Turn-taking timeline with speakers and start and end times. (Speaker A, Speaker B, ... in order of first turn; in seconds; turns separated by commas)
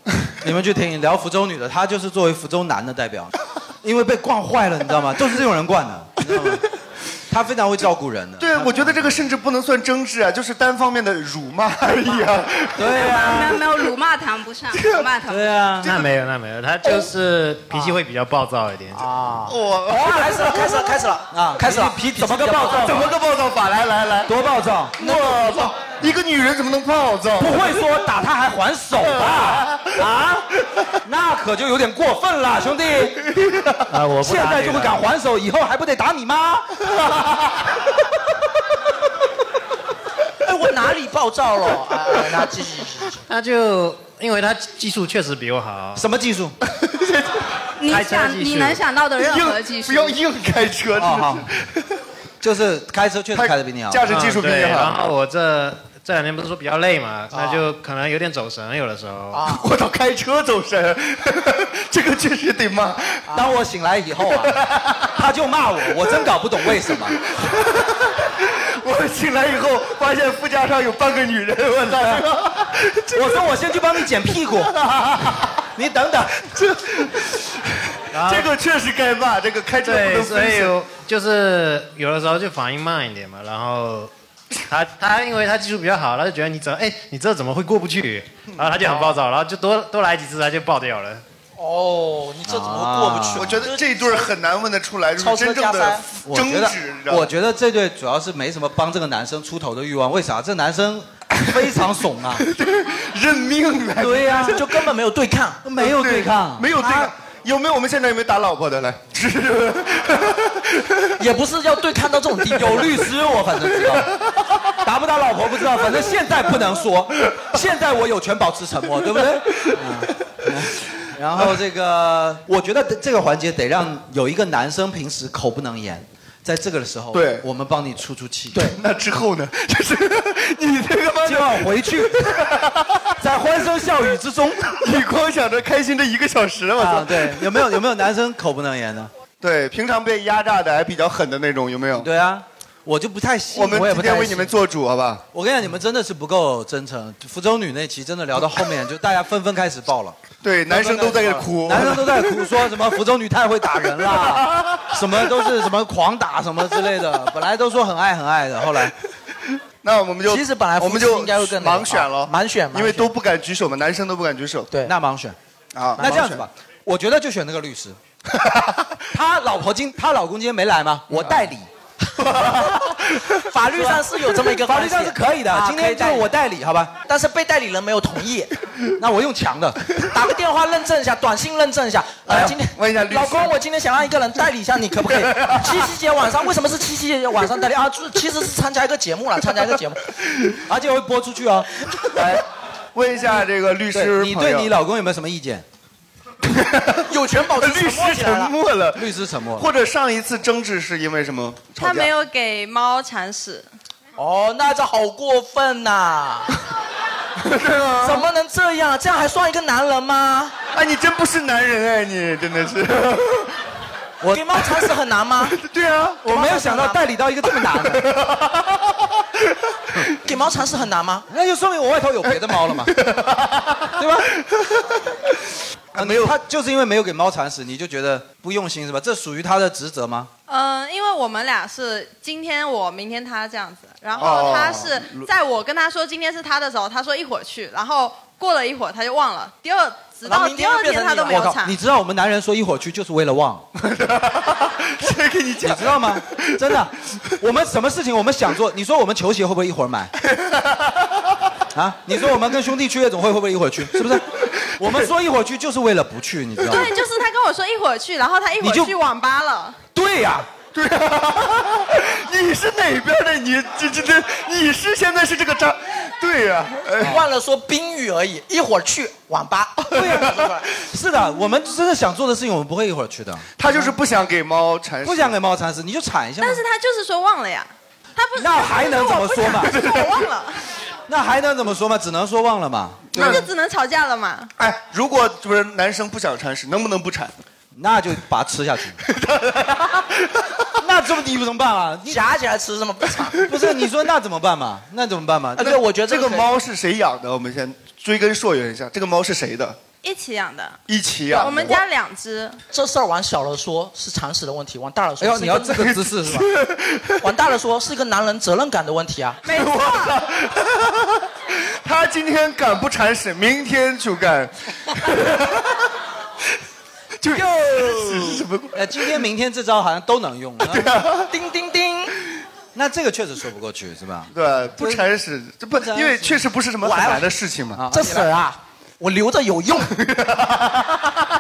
Speaker A: 0.4-6.6, Speaker A: 7.3-9.3, Speaker B: 8.4-13.7, Speaker A: 12.8-13.6, Speaker C: 12.9-15.6, Speaker B: 14.7-15.1, Speaker A: 15.3-15.9, Speaker B: 15.8-16.1, Speaker D: 15.8-19.1, Speaker E: 16.8-17.1, Speaker E: 18.9-23.1, Speaker B: 19.5-20.9, Speaker A: 21.3-23.1, Speaker B: 22.7-24.3, Speaker A: 24.3-25.4, Speaker E: 25.0-25.7, Speaker B: 25.0-27.7, Speaker A: 27.4-30.5, Speaker B: 29.3-29.9, Speaker A: 31.0-33.3, Speaker B: 33.4-33.8, Speaker D: 33.9-35.0, Speaker A: 34.1-36.8, Speaker E: 40.4-43.2, Speaker D: 43.3-46.1, Speaker A: 46.0-46.5, Speaker B: 46.8-47.5, Speaker C: 47.8-50.2, Speaker D: 47.8-48.8, Speaker B: 49.2-51.9, Speaker A: 51.0-51.5, Speaker A: 52.4-54.1, Speaker B: 53.3-55.0, Speaker D: 54.1-59.4, Speaker E: 57.3-57.7, Speaker E: 59.3-59.7, Speaker B: 59.4-63.3, Speaker A: 63.3-64.6, Speaker B: 64.3-65.1, Speaker A: 65.1-67.2, Speaker B: 66.9-73.4, Speaker A: 71.9-72.2, Speaker A: 73.1-74.7, Speaker B: 74.6-75.6, Speaker A: 75.8-76.4, Speaker B: 76.5-80.8, Speaker D: 78.1-78.5, Speaker D: 79.8-84.1, Speaker D: 84.7-91.2, Speaker E: 88.8-89.2, Speaker E: 91.6-94.3, Speaker A: 92.5-93.7, Speaker B: 93.3-97.3, Speaker E: 95.2-96.0, Speaker A: 96.3-102.5, Speaker B: 102.4-104.7, Speaker A: 104.0-104.6, Speaker E: 104.5-105.6, Speaker A: 105.6-107.1, Speaker B: 105.8-111.1, Speaker E: 111.2-113.0, Speaker A: 112.5-114.1, Speaker A: 114.8-128.6, Speaker B: 127.1-127.5, Speaker E: 128.5-128.8, Speaker B: 128.6-133.1, Speaker A: 131.2-132.3, Speaker A: 133.2-134.9, Speaker B: 134.8-137.7, Speaker A: 136.8-139.1, Speaker B: 139.4-142.1, Speaker A: 142.0-144.6, Speaker B: 143.5-145.2, Speaker A: 145.3-150.2, Speaker B: 150.4-152.3, Speaker E: 150.7-151.5, Speaker A: 151.4-158.9, Speaker B: 159.8-164.7, Speaker E: 160.3-163.1, Speaker A: 164.8-165.4, Speaker B: 165.7-166.4, Speaker A: 166.0-168.0, Speaker B: 168.3-168.9, Speaker A: 169.1-171.7, Speaker B: 172.2-173.3, Speaker E: 173.5-176.2, Speaker A: 173.7-176.9, Speaker E: 177.1-178.5, Speaker A: 179.0-179.8, Speaker E: 180.1-190.0, Speaker A: 182.3-182.5, Speaker B: 182.3-183.5, Speaker B: 185.2-185.8, Speaker A: 190.7-192.0, Speaker B: 192.1-192.4, Speaker B: 192.9-194.7, Speaker A: 193.9-195.7, Speaker B: 196.5-197.1, Speaker E: 197.1-198.5, Speaker B: 197.6-202.1, Speaker A: 198.9-199.7, Speaker F: 201.8-203.7, Speaker E: 204.2-206.5, Speaker B: 207.4-208.2, Speaker E: 208.0-210.5, Speaker B: 210.7-213.6, Speaker A: 214.2-214.6, Speaker E: 214.3-215.6, Speaker B: 215.4-216.3, Speaker A: 216.2-218.1, Speaker E: 216.3-217.0, Speaker B: 217.7-218.9, Speaker E: 220.2-221.3, Speaker A: 221.3-222.9, Speaker B: 222.3-224.1, Speaker A: 224.0-224.3, Speaker B: 225.9-226.4, Speaker A: 225.9-230.3, Speaker F: 230.5-241.8, Speaker B: 234.2-235.3, Speaker E: 240.2-241.6, Speaker A: 241.3-243.7, Speaker B: 243.8-246.5, Speaker A: 245.6-250.1, Speaker B: 250.2-251.2, Speaker A: 251.7-256.9, Speaker F: 256.6-259.8, Speaker A: 258.6-258.9, Speaker A: 259.9-260.5, Speaker B: 260.7-267.2, Speaker E: 267.0-270.7, Speaker A: 269.9-273.5, Speaker B: 269.9-270.3, Speaker B: 273.6-275.4, Speaker A: 275.0-276.6, Speaker F: 276.4-280.6, Speaker A: 278.4-279.8, Speaker B: 279.6-280.1, Speaker A: 281.1-283.4, Speaker B: 283.1-283.5, Speaker F: 283.2-284.5, Speaker B: 284.6-287.3, Speaker A: 287.7-289.0, Speaker B: 289.1-290.6, Speaker A: 290.8-292.3, Speaker E: 292.1-293.4, Speaker A: 293.4-295.8, Speaker E: 295.6-296.5, Speaker B: 295.6-299.8, Speaker F: 300.0-300.8, Speaker B: 300.9-301.8, Speaker F: 301.3-302.6, Speaker E: 302.7-306.0, Speaker A: 305.2-306.5, Speaker B: 305.7-307.2, Speaker E: 307.2-309.4, Speaker F: 309.4-310.2, Speaker B: 309.5-311.3, Speaker B: 311.8-315.8, Speaker B: 317.2-319.2, Speaker A: 318.7-320.9, Speaker B: 320.6-321.3, Speaker E: 321.3-322.1, Speaker A: 322.7-325.1, Speaker B: 324.3-327.9, Speaker A: 325.7-328.3, Speaker E: 327.9-329.9, Speaker B: 330.0-330.8